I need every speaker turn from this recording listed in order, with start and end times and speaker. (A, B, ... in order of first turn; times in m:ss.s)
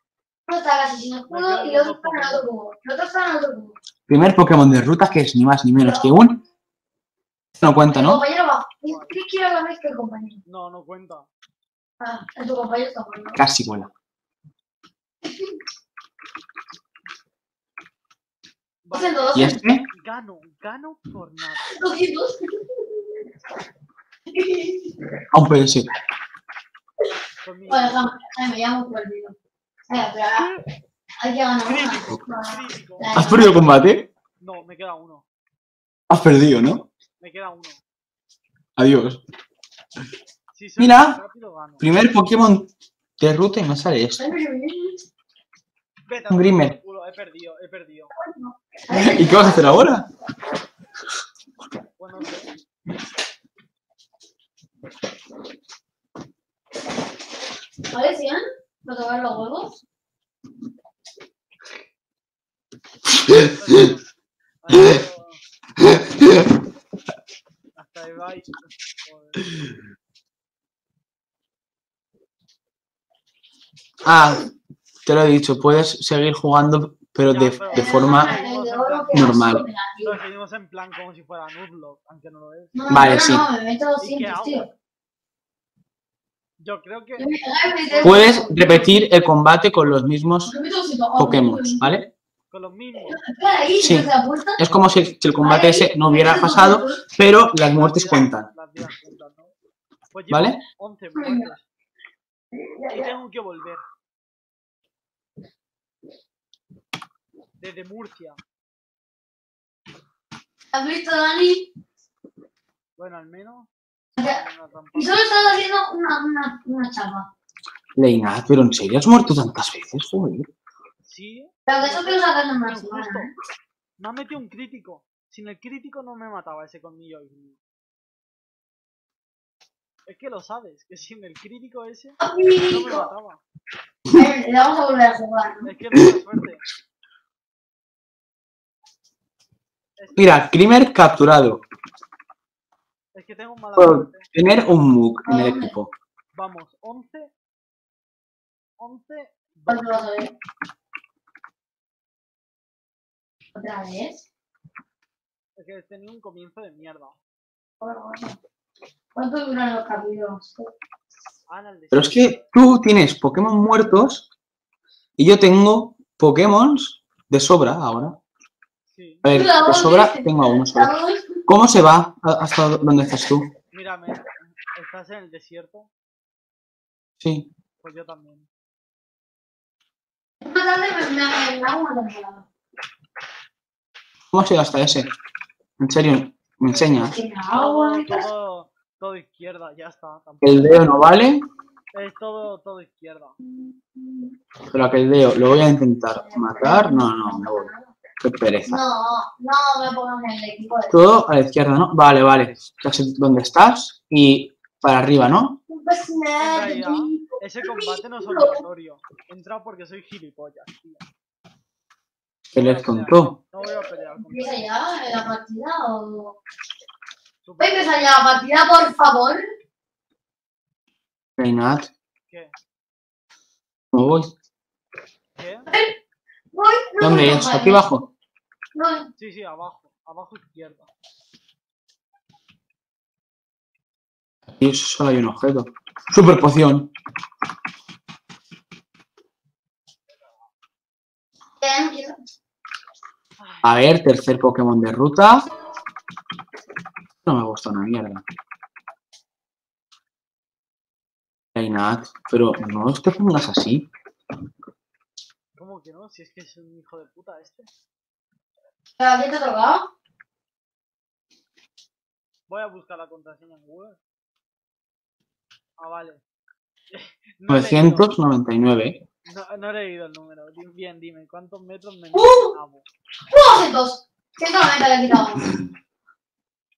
0:00.5-0:03.7 A
0:01.3-0:02.5 B
0:04.1-0:06.4 C
0:05.8-0:06.1 A
0:07.6-0:08.2 C
0:07.9-0:10.4 A
0:08.8-0:09.2 B
0:10.4-0:11.3 B
0:12.0-0:13.4 A
0:13.4-0:13.9 C
0:18.8-0:21.8 B
0:18.9-0:19.6 A
0:19.3-0:19.8 C
0:21.7-0:23.1 A
0:24.3-0:25.0 A
0:25.3-0:25.9 C
0:27.4-0:28.1 B
0:27.7-0:29.3 A
0:29.9-0:30.5 A
0:30.3-0:30.7 B
0:31.2-0:33.8 A
0:31.6-0:35.2 B
0:33.1-0:34.0 C
0:36.1-0:36.8 C
0:37.2-0:37.8 B
0:38.8-0:39.2 C
0:40.5-0:41.9 B
0:40.8-0:41.2 C
0:41.8-0:44.2 C
0:44.2-0:45.0 A
0:46.1-0:48.1 B
0:46.3-0:46.7 C
0:48.1-0:49.8 A
0:48.9-0:50.0 C
0:52.0-0:52.5 B
0:57.9-0:59.7 A
1:03.3-1:04.0 B
1:04.6-1:05.4 B
1:07.8-1:09.4 B
1:14.0-1:14.4 C
1:15.0-1:18.3 C
1:17.2-1:19.4 B
1:17.7-1:20.2 A
1:19.1-1:19.6 C
1:20.0-1:22.8 B
1:22.7-1:24.7 A
1:22.9-1:23.4 C
1:24.0-1:24.7 B
1:26.6-1:27.3 B
1:27.2-1:28.9 A
1:27.9-1:29.0 B
1:28.0-1:30.5 C
1:30.5-1:31.9 A
1:31.2-1:32.0 C
1:32.5-1:33.2 B
1:33.1-1:34.6 A
1:33.8-1:38.5 C
1:35.4-1:37.0 A
1:37.6-1:39.5 B
1:40.1-1:41.6 B
1:40.3-1:40.6 C
1:41.2-1:41.5 A
1:42.5-1:43.1 A
1:42.9-1:43.8 B
1:47.6-1:48.4 B
1:50.7-1:51.7 A
1:53.0-1:55.7 B
1:54.9-1:57.3 A
1:58.0-2:00.5 C
2:01.0-2:03.3 B
2:01.6-2:03.3 A
2:04.0-2:07.6 B
2:10.0-2:13.4 B
2:12.2-2:13.1 A
2:14.1-2:15.7 A
2:15.6-2:16.6 B
2:20.0-2:20.5 B
2:20.2-2:21.6 C
2:23.1-2:24.3 B
2:23.8-2:25.9 C
2:25.2-2:25.7 A
2:26.3-2:27.3 B
2:28.8-2:30.1 B
2:29.7-2:30.3 A
2:33.5-2:34.2 A
2:35.6-2:37.2 B
2:37.8-2:38.4 A
2:39.1-2:40.7 A
2:41.5-2:42.5 B
2:41.9-2:44.3 C
2:45.2-2:48.1 C
2:48.9-2:49.2 B
2:49.2-2:50.9 C
2:49.3-2:51.4 A
2:51.5-2:53.5 C
2:53.7-2:55.9 B
2:57.2-2:57.5 C
2:57.8-2:58.5 B
3:00.4-3:02.4 A
3:04.3-3:05.1 C
3:05.8-3:07.2 C
3:06.7-3:11.0 B
3:07.1-3:08.3 A
3:10.4-3:11.4 C
3:11.9-3:13.4 B
3:14.0-3:14.3 A
3:14.7-3:18.8 C
3:16.2-3:17.9 A
3:18.7-3:21.1 A
3:20.9-3:25.6 C
3:25.7-3:28.6 A
3:26.4-3:31.0 B
3:32.5-3:33.3 C
3:32.5-3:34.7 B
3:33.6-3:36.4 A
3:37.4-3:38.3 B
3:37.6-3:39.5 A
3:41.4-3:41.9 C
3:42.3-3:42.5 B
3:43.9-3:44.3 C
3:45.4-3:45.7 B
3:46.5-3:47.8 A
3:47.0-3:48.1 C
3:48.7-3:49.1 A
3:49.2-3:50.9 B
3:54.6-3:56.9 C
4:01.6-4:02.2 A
4:03.4-4:03.8 B
4:03.6-4:05.5 C
4:07.2-4:08.2 C
4:11.5-4:13.9 C
4:15.6-4:17.7 B
4:19.0-4:19.9 A
4:22.5-4:24.0 B
4:25.8-4:26.2 B
4:26.9-4:28.1 B
4:27.5-4:29.0 C
4:29.2-4:32.9 B
4:32.1-4:32.5 A
4:33.3-4:35.6 A